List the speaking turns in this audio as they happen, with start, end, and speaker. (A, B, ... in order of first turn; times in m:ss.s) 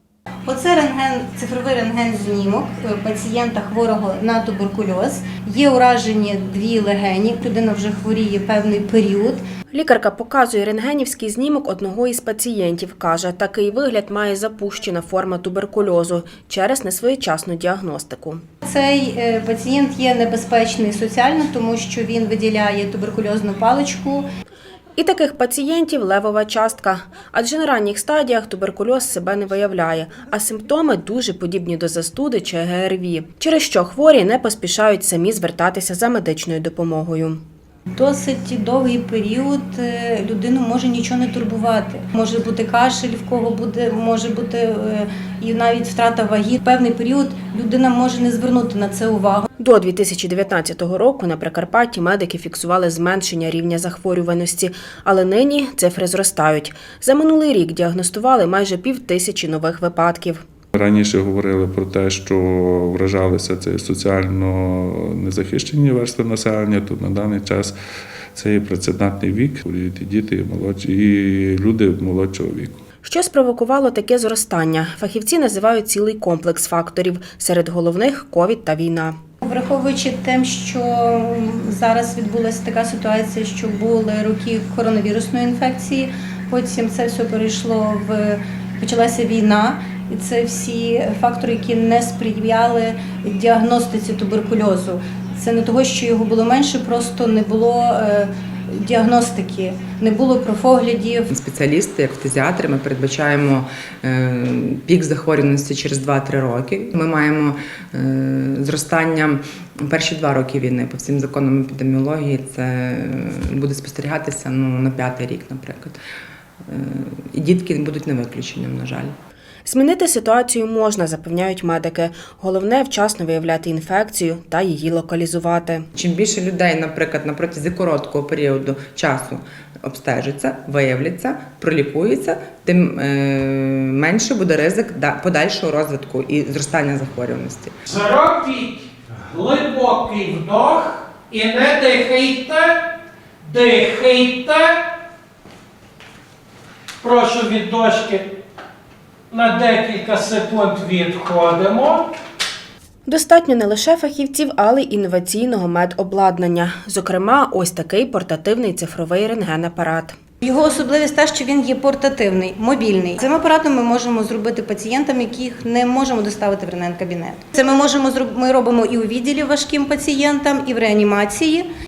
0:00.5-0:09.4 A
0:09.7-0:18.4 B
0:18.6-0:24.2 A
0:25.0-0:37.4 B
0:38.0-0:49.5 A
0:49.6-1:00.4 B
1:00.7-1:07.7 C
1:08.3-1:12.8 C
1:13.0-1:19.2 B
1:19.4-1:41.3 A
1:41.3-1:56.0 D
1:56.7-1:59.2 D
1:59.7-2:05.9 B
2:06.0-2:17.8 D
2:17.9-2:22.7 E
2:23.4-2:24.6 E
2:27.0-2:28.2 E
2:29.3-2:32.0 E
2:33.1-2:40.2 B
2:40.4-2:51.7 A